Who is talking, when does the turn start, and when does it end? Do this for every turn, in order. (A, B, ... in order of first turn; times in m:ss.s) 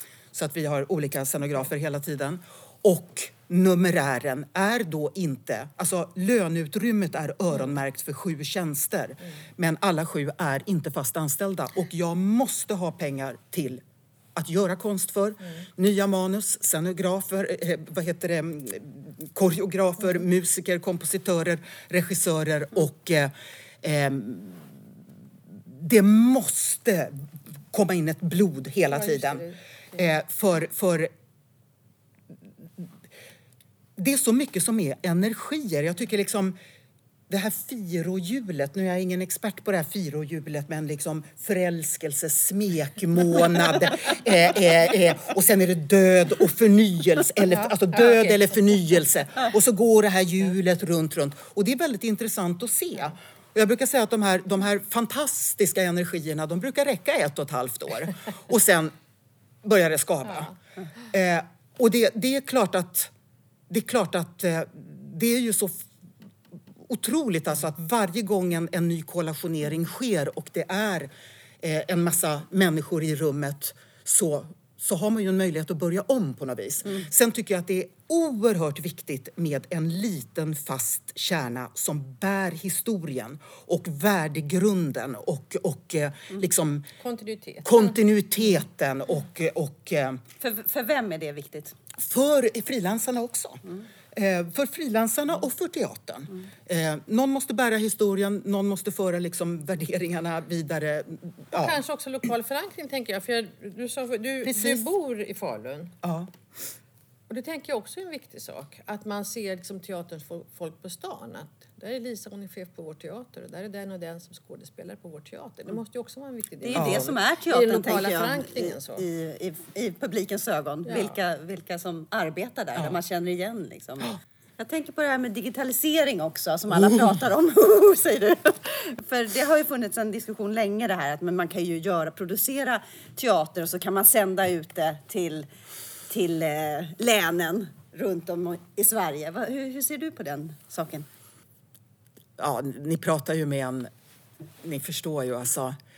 0:00.3-0:13.8 A
0:14.4-0:24.7 A
0:25.7-0:31.1 A
0:28.9-0:29.6 B
0:34.0-0:36.6 A
0:37.3-0:58.9 A
0:59.6-1:00.6 A
1:01.1-1:03.1 A
1:03.7-1:05.9 A
1:06.8-1:26.9 A
1:27.0-1:27.9 B
1:27.6-1:30.2 A
1:30.4-1:31.8 C
1:32.0-1:41.8 A
1:41.5-1:45.9 B
1:44.4-1:44.9 A
1:46.0-1:46.3 A
1:47.3-1:59.1 B
1:56.6-2:15.5 C
1:56.8-1:57.1 A
2:00.9-2:01.1 B
2:16.1-2:21.1 C
2:22.4-2:23.9 A
2:24.6-2:25.8 A